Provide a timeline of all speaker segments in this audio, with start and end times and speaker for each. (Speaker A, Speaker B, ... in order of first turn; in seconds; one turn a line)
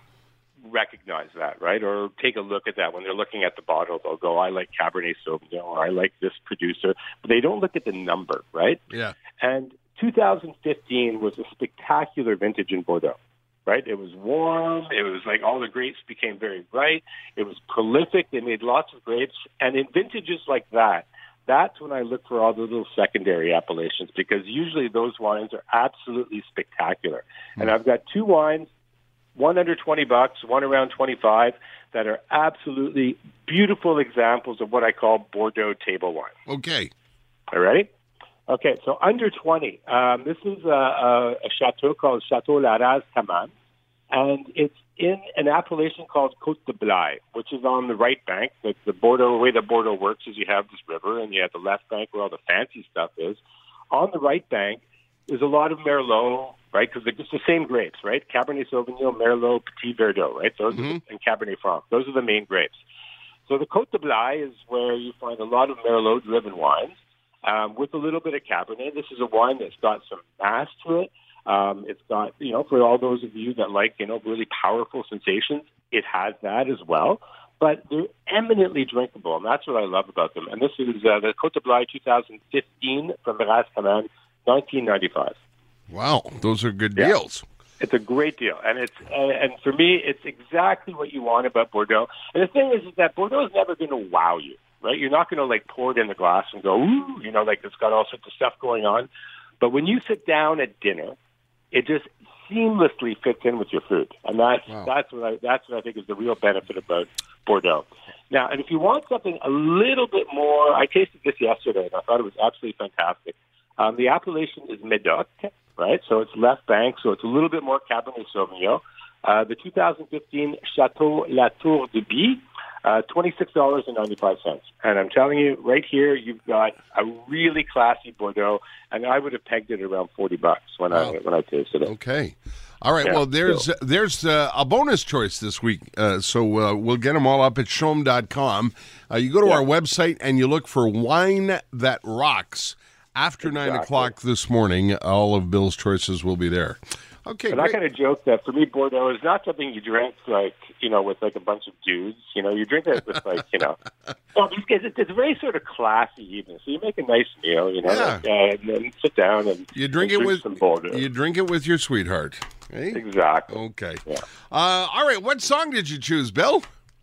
Speaker A: 0.7-8.9
Speaker A: 9.4-28.7
Speaker A: 29.4-36.3
Speaker B: 36.5-36.9
Speaker A: 37.5-37.9
Speaker A: 38.5-43.5
Speaker A: 44.1-62.8
Speaker B: 60.7-61.0
Speaker A: 63.5-85.3
Speaker B: 85.9-87.5
Speaker A: 87.8-99.1
Speaker A: 99.6-101.2
Speaker A: 101.7-131.9
Speaker B: 130.9-131.2
Speaker B: 131.9-147.8
Speaker A: 133.0-133.7
Speaker A: 143.4-144.1
Speaker A: 147.5-153.8
Speaker A: 154.3-161.0
Speaker B: 157.8-158.2
Speaker B: 159.8-166.7
Speaker A: 162.9-164.2